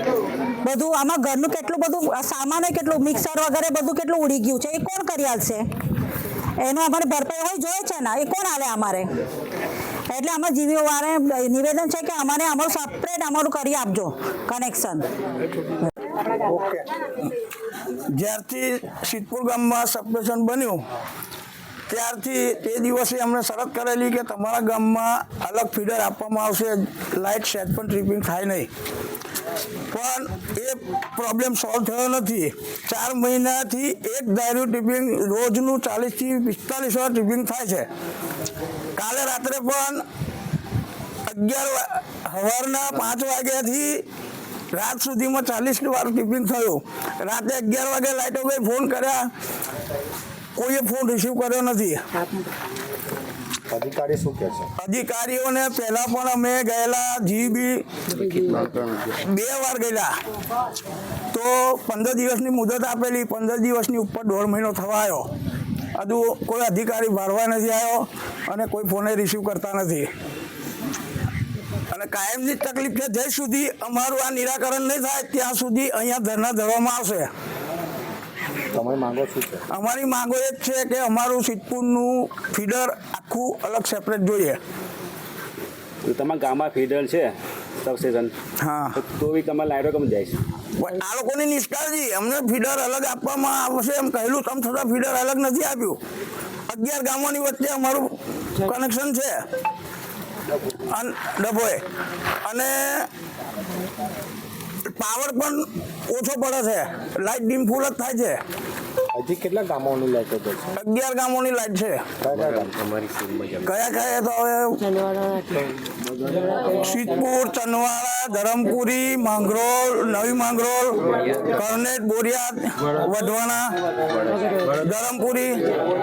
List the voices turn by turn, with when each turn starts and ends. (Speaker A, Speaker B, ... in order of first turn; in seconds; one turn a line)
Speaker A: 0.6-5.6
Speaker A: 6.6-9.1
Speaker A: 10.1-15.1
Speaker B: 16.3-17.0
Speaker C: 18.1-20.8
Speaker C: 21.9-28.7
Speaker C: 29.9-37.9
Speaker C: 39.0-40.0
Speaker C: 41.3-44.0
Speaker C: 44.7-49.2
Speaker C: 50.5-52.0
Speaker B: 53.7-54.7
Speaker C: 54.8-57.8
Speaker C: 59.0-60.1
Speaker C: 61.3-65.3
Speaker C: 65.9-70.1
Speaker C: 71.9-77.3
Speaker B: 78.7-79.6
Speaker C: 79.7-84.6
Speaker D: 86.0-88.3
Speaker C: 88.6-88.9
Speaker D: 88.9-90.4
Speaker C: 90.8-96.0
Speaker C: 96.7-99.4
Speaker C: 100.7-101.8
Speaker C: 102.4-103.1
Speaker C: 104.9-108.4
Speaker B: 109.1-110.7
Speaker C: 110.8-112.1
Speaker B: 112.2-112.7
Speaker C: 113.6-114.9
Speaker C: 116.7-123.7
Speaker C: 124.7-125.6